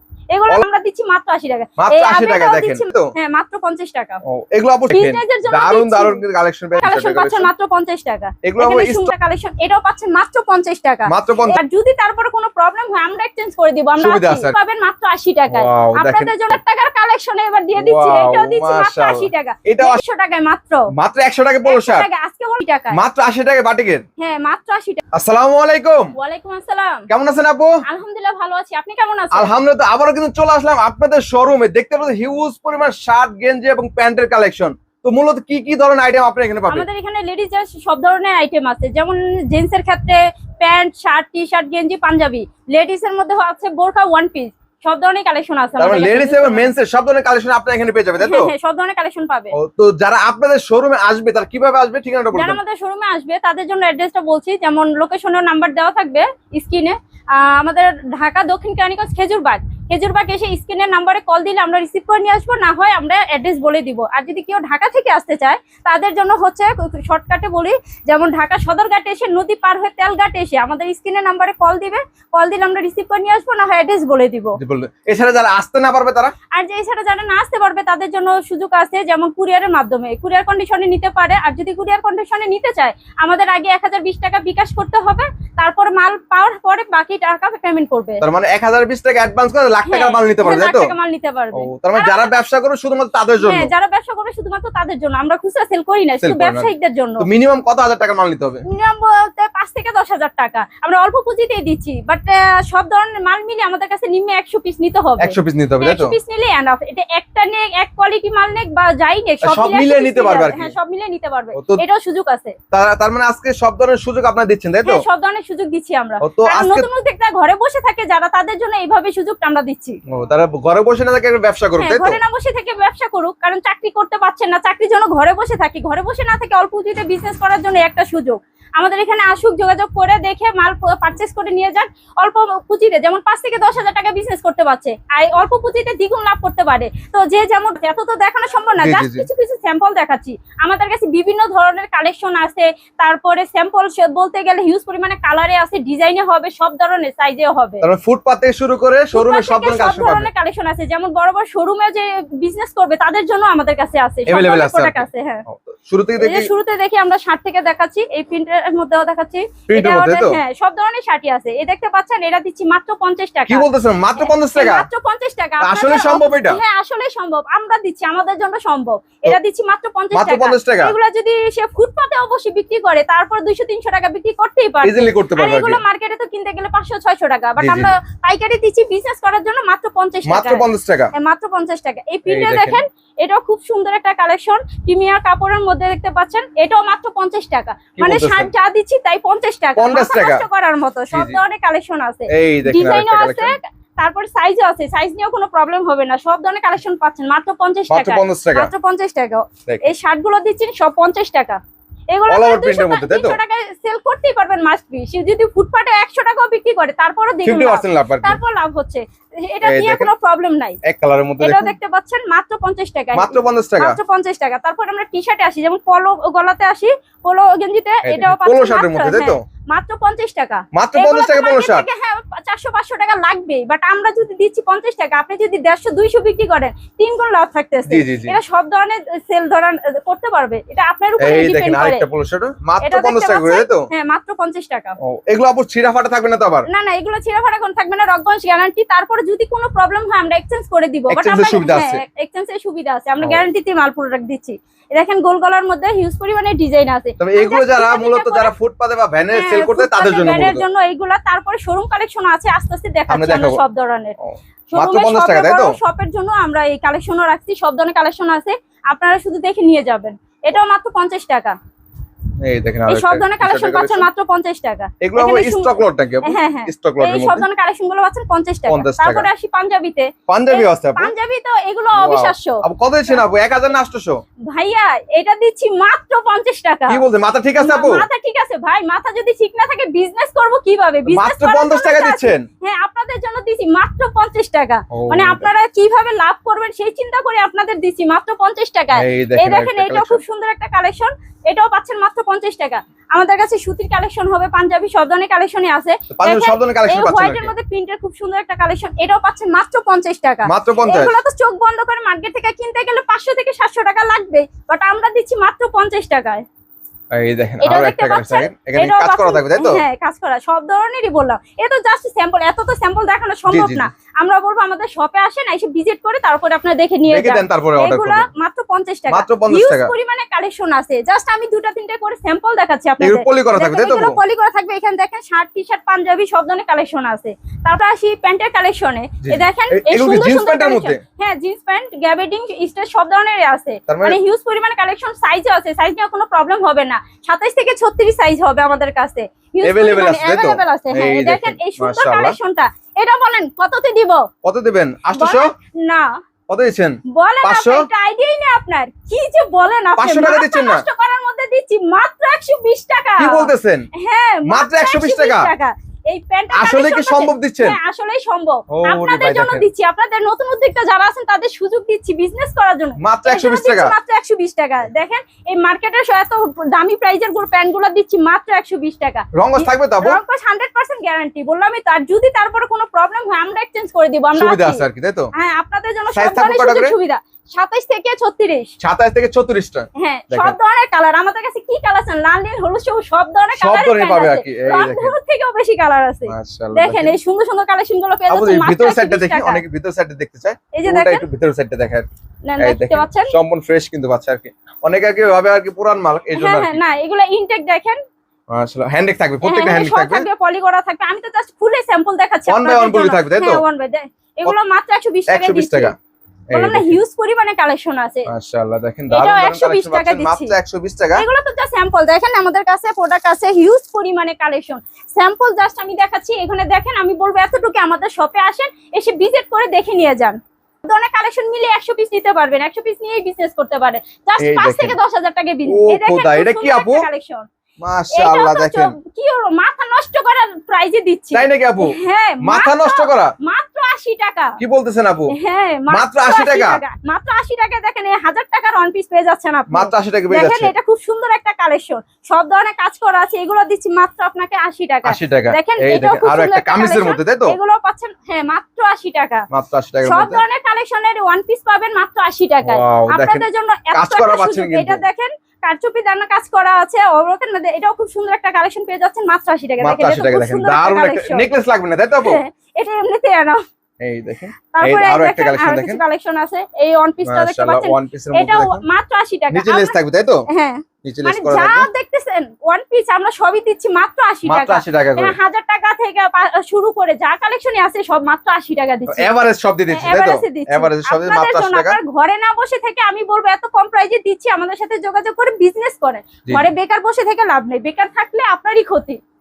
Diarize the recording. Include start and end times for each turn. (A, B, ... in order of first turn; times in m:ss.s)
0:00.3-0:04.2 A
0:01.8-0:03.1 B
0:04.2-0:07.5 B
0:04.9-0:06.2 A
0:06.8-0:20.9 A
0:08.4-0:09.1 B
0:11.1-0:11.6 B
0:14.0-0:14.5 B
0:15.5-0:16.6 B
0:17.8-0:20.0 B
0:21.0-0:22.1 B
0:21.6-0:23.0 A
0:22.9-0:24.0 B
0:24.2-0:25.0 A
0:25.1-0:26.1 B
0:26.2-0:27.1 A
0:27.1-0:27.7 B
0:27.8-0:29.5 A
0:29.3-0:36.8 B
0:36.7-0:46.7 A
0:45.8-0:48.5 B
0:48.2-0:49.5 A
0:49.5-0:52.6 B
0:52.3-1:14.6 A
1:14.6-1:16.3 B
1:16.5-1:28.2 A
1:28.2-1:30.9 B
1:29.8-1:32.3 A
1:31.5-1:33.7 B
1:33.4-1:37.2 A
1:36.2-1:38.6 B
1:38.7-1:52.6 A
1:45.2-1:46.2 B
1:49.4-1:50.7 B
1:51.5-1:51.8 B
1:52.7-1:55.0 B
1:54.8-2:00.0 A
1:56.2-1:56.9 B
2:00.1-2:02.2 B
2:01.8-2:27.8 A
2:18.8-2:19.3 B
2:27.8-2:30.3 B
2:29.1-2:35.4 A
2:34.3-2:36.5 B
2:36.2-2:43.7 A
2:39.7-2:40.4 B
2:43.5-2:44.9 B
2:44.2-3:30.8 A
2:45.6-2:46.6 B
2:50.1-2:50.9 B
2:54.8-2:55.8 B
2:57.6-2:57.9 B
3:00.2-3:01.1 B
3:02.3-3:02.8 B
3:08.0-3:08.5 B
3:09.8-3:10.4 B
3:11.1-3:11.4 B
3:12.3-3:13.5 B
3:17.9-3:18.7 B
3:22.3-3:23.4 B
3:27.4-3:28.4 B
3:29.6-3:30.1 B
3:30.8-3:31.7 B
3:31.4-3:52.0 A
3:33.1-3:34.0 B
3:38.0-3:39.4 B
3:40.7-3:41.8 B
3:47.9-3:48.4 B
3:51.2-3:53.8 B
3:52.8-3:55.0 A
3:55.0-3:56.7 B
3:56.7-4:08.5 A
4:01.1-4:02.0 B
4:07.2-4:10.6 B
4:09.3-4:14.2 A
4:13.1-4:13.6 B
4:14.2-4:15.8 B
4:14.7-4:21.6 A
4:22.4-4:24.1 B
4:22.9-4:25.7 A
4:25.0-4:27.4 B
4:26.2-4:33.2 A
4:28.7-4:29.3 B
4:30.3-4:31.1 B
4:31.9-4:34.2 B
4:34.5-4:37.0 A
4:36.9-4:38.1 B
4:37.6-5:06.4 A
4:41.1-4:42.5 B
4:44.9-4:45.5 B
4:48.9-4:50.2 B
4:56.1-4:57.5 B
5:00.4-5:01.2 B
5:07.1-5:09.8 B
5:07.6-5:44.3 A
5:13.5-5:13.9 B
5:17.1-5:18.2 B
5:19.1-5:19.9 B
5:23.0-5:24.2 B
5:29.2-5:31.0 B
5:33.9-5:34.2 B
5:39.6-5:42.4 B
5:44.4-5:45.5 B
5:45.1-5:46.2 A
5:46.5-5:47.9 B
5:47.1-6:14.8 A
5:50.0-5:50.8 B
5:53.2-5:53.8 B
5:54.4-5:55.5 B
5:56.5-5:57.8 B
5:58.7-5:59.6 B
6:03.0-6:03.9 B
6:09.4-6:10.2 B
6:14.3-6:15.3 B
6:15.3-6:18.7 A
6:16.1-6:16.9 B
6:18.8-6:20.6 B
6:20.0-6:29.6 A
6:23.6-6:25.1 B
6:26.3-6:27.2 B
6:28.3-6:32.1 B
6:30.7-6:31.2 A
6:32.4-6:33.3 A
6:32.6-6:36.8 B
6:36.4-6:38.0 A
6:38.5-6:40.3 B
6:39.4-6:45.9 A
6:42.5-6:43.6 B
6:45.3-6:45.9 B
6:46.5-6:47.0 B
6:46.5-6:48.3 A
6:48.3-6:51.2 B
6:49.1-6:50.5 A
6:51.1-7:07.4 A
7:04.4-7:05.0 B
7:05.7-7:07.1 B
7:07.8-7:08.9 B
7:08.1-7:14.6 A
7:11.3-7:13.3 B
7:14.6-7:15.3 B
7:15.3-7:29.4 A
7:15.9-7:16.8 B
7:19.7-7:20.7 B
7:25.0-7:27.6 B
7:29.5-7:30.4 B
7:30.0-7:41.5 A
7:32.6-7:35.0 B
7:39.8-7:42.4 B
7:42.2-7:43.6 A
7:44.0-7:46.0 B
7:44.7-7:49.9 A
7:47.2-7:48.8 B
7:49.5-7:50.4 B
7:50.5-7:59.3 A
7:51.0-7:51.9 B
7:54.4-7:55.4 B
7:59.1-8:02.0 B
7:59.9-8:09.2 A